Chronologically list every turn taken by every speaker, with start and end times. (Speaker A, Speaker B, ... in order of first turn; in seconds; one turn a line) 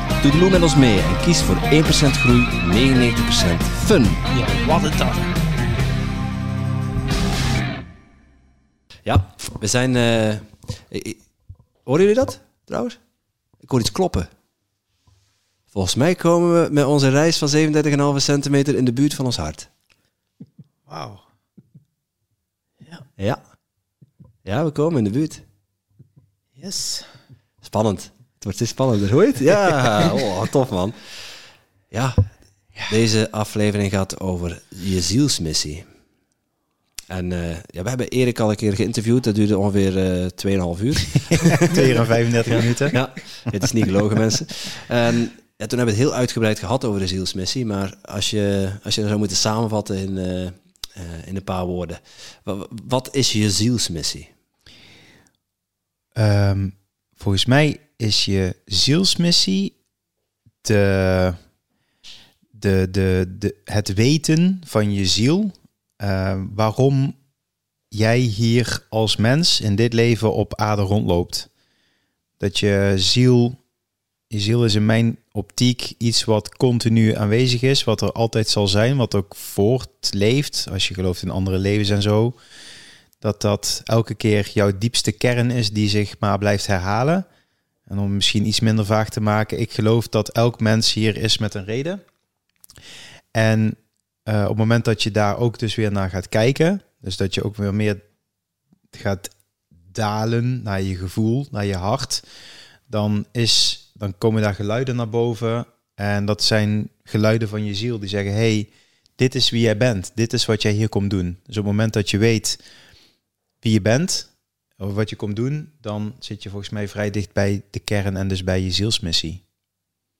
Speaker A: 0.2-4.2
Speaker B: 4.3-5.3
Speaker A: 9.0-11.2
Speaker A: 11.8-13.0
Speaker A: 13.6-14.3
Speaker A: 15.7-19.7
Speaker B: 20.9-21.2
Speaker A: 24.4-25.4
Speaker B: 26.6-27.1
Speaker A: 27.6-30.9
Speaker A: 31.9-32.1
Speaker A: 32.9-35.8
Speaker A: 37.1-41.9
Speaker C: 41.7-43.0
Speaker A: 42.9-54.3
Speaker C: 56.1-59.7
Speaker C: 60.6-61.4
Speaker C: 62.5-67.2
Speaker C: 67.9-71.5
Speaker C: 72.4-73.6
Speaker C: 74.3-82.3
Speaker C: 83.2-87.2
Speaker C: 87.9-92.0
Speaker C: 93.3-98.0
Speaker C: 98.9-99.3
Speaker C: 99.9-102.2
Speaker C: 102.9-112.6
Speaker C: 113.6-119.4